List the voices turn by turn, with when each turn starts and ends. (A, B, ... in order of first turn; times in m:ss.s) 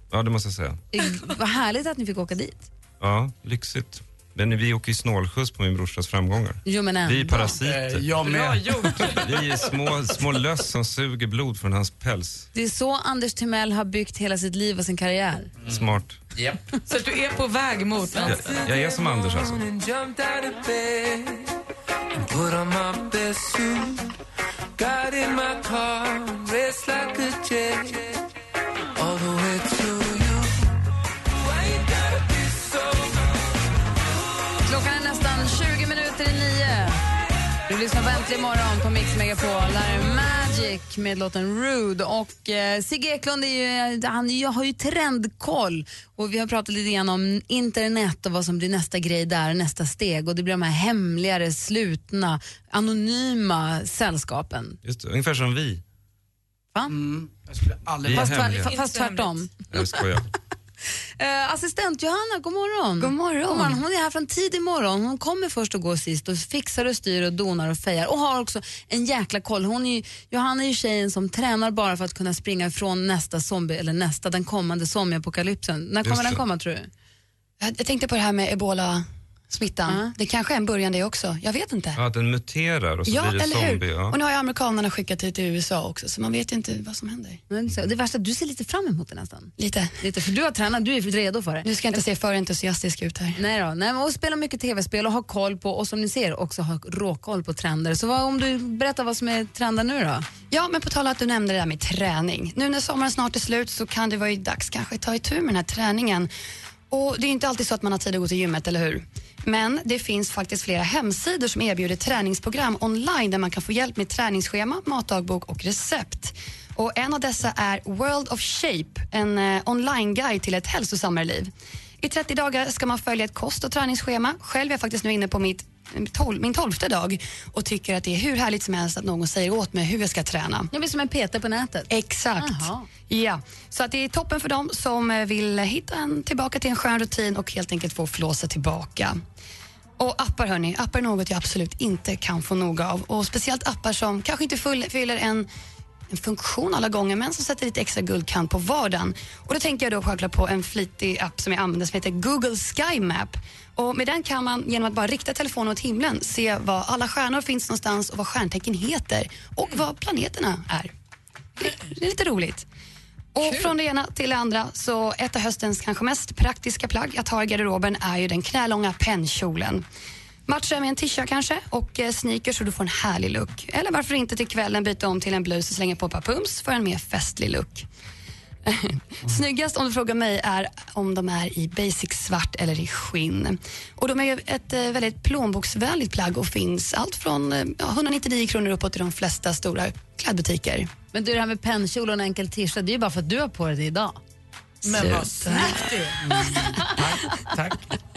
0:00.1-0:00.8 A
0:00.9-0:02.7 B
0:03.0-0:08.1 A
0:06.6-0:07.6 B
0:07.6-0:10.2 C
0:08.2-0:09.2 D
0:09.0-0:12.5 A
0:12.5-0:15.5 B
0:15.6-0:16.6 C
0:15.7-0:16.2 A
0:16.9-0:18.6 D
0:18.2-0:19.7 A
0:18.4-0:21.5 E
0:22.2-0:24.1 E
0:24.8-0:28.2 E
0:29.0-0:30.7 E
0:31.6-0:33.3 E
0:34.7-0:37.0 B
0:37.7-0:54.8 B
0:54.8-0:55.8 A
0:56.9-0:58.5 C
0:58.0-0:58.8 A
0:58.1-1:00.0 B
0:58.6-0:59.5 D
0:59.7-1:00.3 A
1:01.2-1:16.9 B
1:03.0-1:03.8 F
1:16.0-1:16.4 A
1:17.6-1:22.0 F
1:22.0-1:24.2 A
1:23.1-1:27.4 F
1:27.5-1:32.0 B
1:29.6-1:30.0 F
1:31.6-1:33.4 F
1:33.4-1:40.3 B
1:40.5-1:46.3 F
1:46.9-2:01.5 F
2:02.0-2:10.7 F
2:10.7-2:12.9 B
2:11.9-2:19.2 F
2:20.0-2:25.5 F
2:26.1-2:40.9 F
2:41.6-2:42.7 F
2:43.3-2:49.9 F
2:50.5-2:57.9 F
2:58.7-3:10.9 F
3:11.1-3:14.2 B
3:14.8-3:16.6 D
3:14.9-3:15.9 F
3:15.5-3:17.3 B
3:16.2-3:17.8 C